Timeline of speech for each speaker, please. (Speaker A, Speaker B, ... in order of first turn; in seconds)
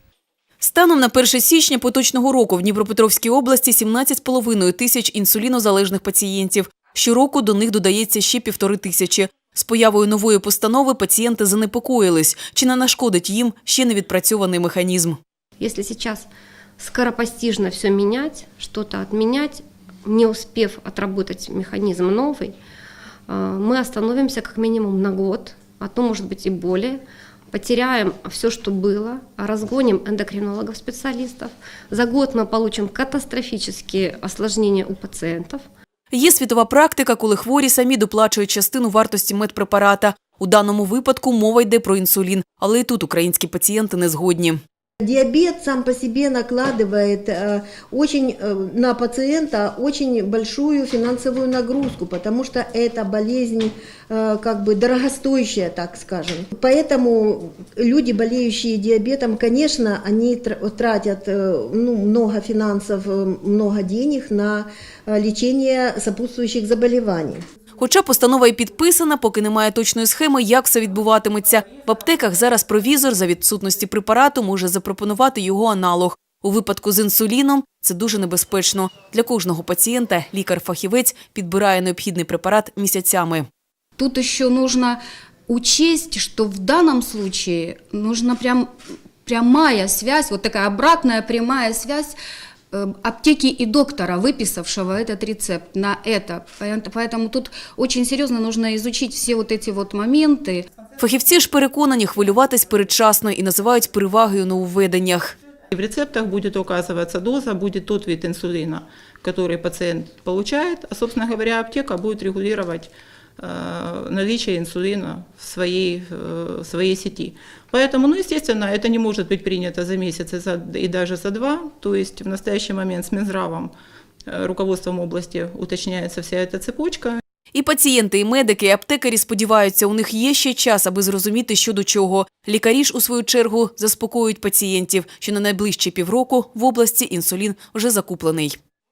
Speaker A: 0.6-15.2, 36.1-44.6, 67.8-83.5, 101.0-105.3, 127.5-138.6
Speaker B: 15.6-16.3, 16.8-22.5, 23.3-35.6
Speaker C: 45.0-67.4
Speaker D: 84.0-88.7, 89.2-92.2, 92.7-100.6
Speaker E: 105.7-123.7, 124.3-127.2